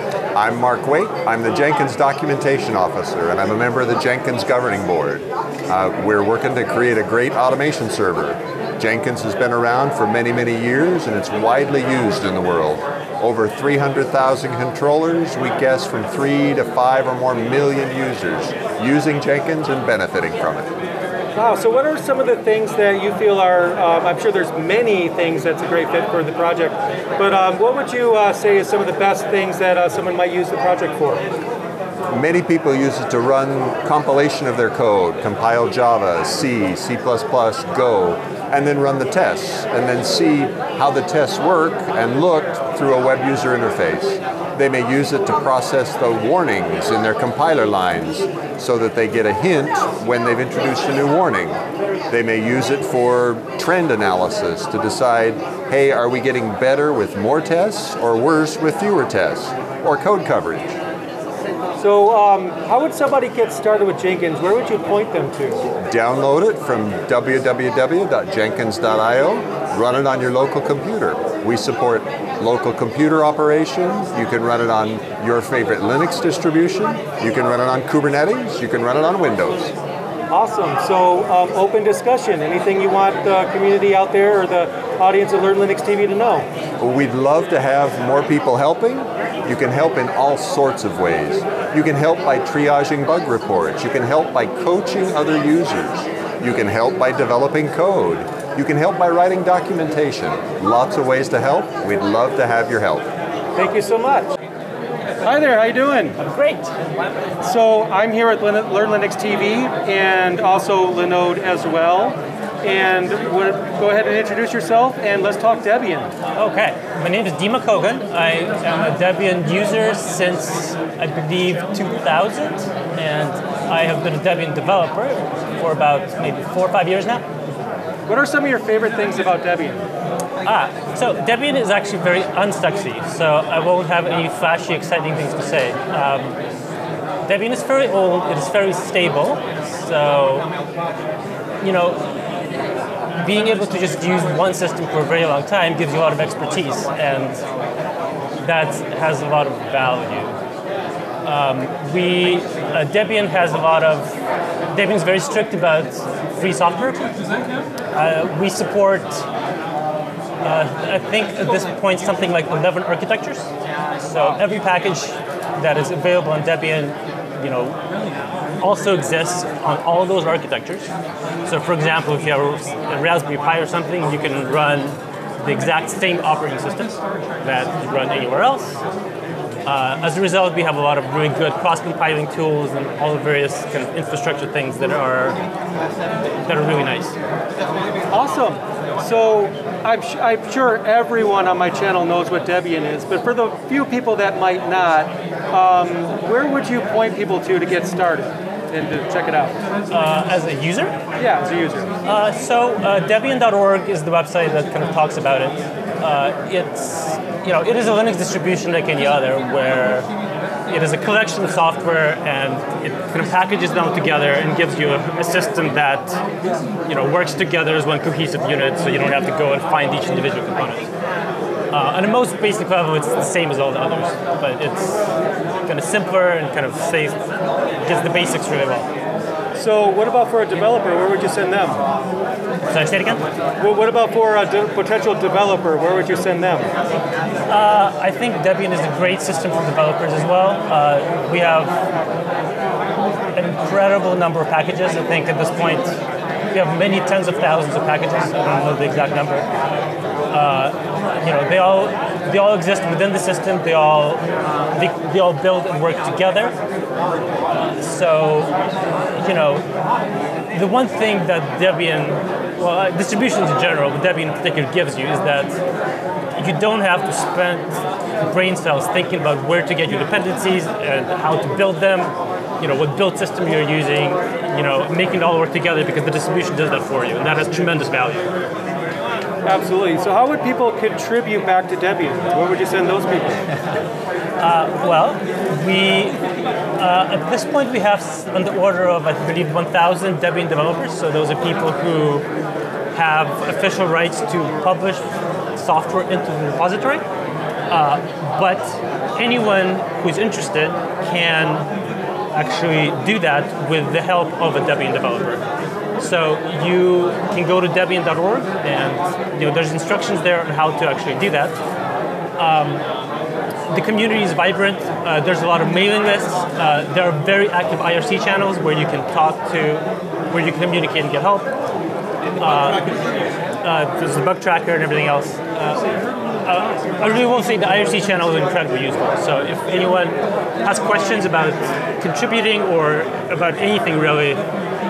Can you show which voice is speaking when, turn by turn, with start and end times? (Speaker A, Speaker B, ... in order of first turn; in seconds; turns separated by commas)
Speaker A: 0.3-20.7, Speaker B: 21.3-31.2, Speaker A: 32.1-51.6, Speaker A: 52.1-60.7, Speaker B: 61.8-65.6, Speaker A: 65.8-79.7, Speaker B: 80.3-86.5, Speaker A: 86.8-103.1, Speaker B: 103.5-104.3, Speaker B: 105.2-106.1, Speaker C: 106.2-106.7, Speaker B: 107.4-116.1, Speaker C: 116.3-127.2, Speaker B: 128.1-129.8, Speaker C: 130.4-136.4, Speaker C: 137.2-140.5, Speaker C: 141.6-142.2, Speaker C: 143.1-147.4, Speaker C: 148.4-150.3, Speaker C: 151.2-154.2, Speaker C: 154.7-157.1, Speaker C: 157.9-159.2, Speaker C: 160.4-163.5, Speaker C: 164.0-167.8, Speaker C: 168.6-170.9, Speaker C: 171.4-178.8, Speaker C: 179.6-185.4, Speaker C: 186.4-187.2, Speaker B: 188.1-199.6, Speaker C: 199.9-201.0, Speaker B: 201.2-201.9, Speaker C: 202.0-210.1, Speaker C: 210.7-216.2, Speaker C: 216.8-220.9, Speaker C: 221.7-225.0, Speaker C: 225.6-227.2, Speaker C: 227.8-228.9, Speaker B: 229.5-231.8, Speaker C: 232.7-233.2, Speaker B: 233.6-236.7, Speaker C: 237.5-241.7, Speaker C: 243.3-245.9, Speaker C: 246.5-249.4, Speaker C: 250.3-256.5, Speaker C: 257.5-258.5, Speaker C: 259.1-259.6, Speaker C: 260.5-265.6, Speaker C: 266.4-278.3, Speaker B: 279.4-283.4, Speaker C: 284.4-286.2, Speaker C: 286.8-292.3, Speaker C: 292.9-297.0, Speaker C: 297.7-301.7, Speaker C: 302.3-305.4, Speaker C: 306.0-311.6, Speaker C: 312.4-312.8, Speaker C: 313.7-321.5, Speaker C: 322.4-322.9, Speaker C: 323.6-334.4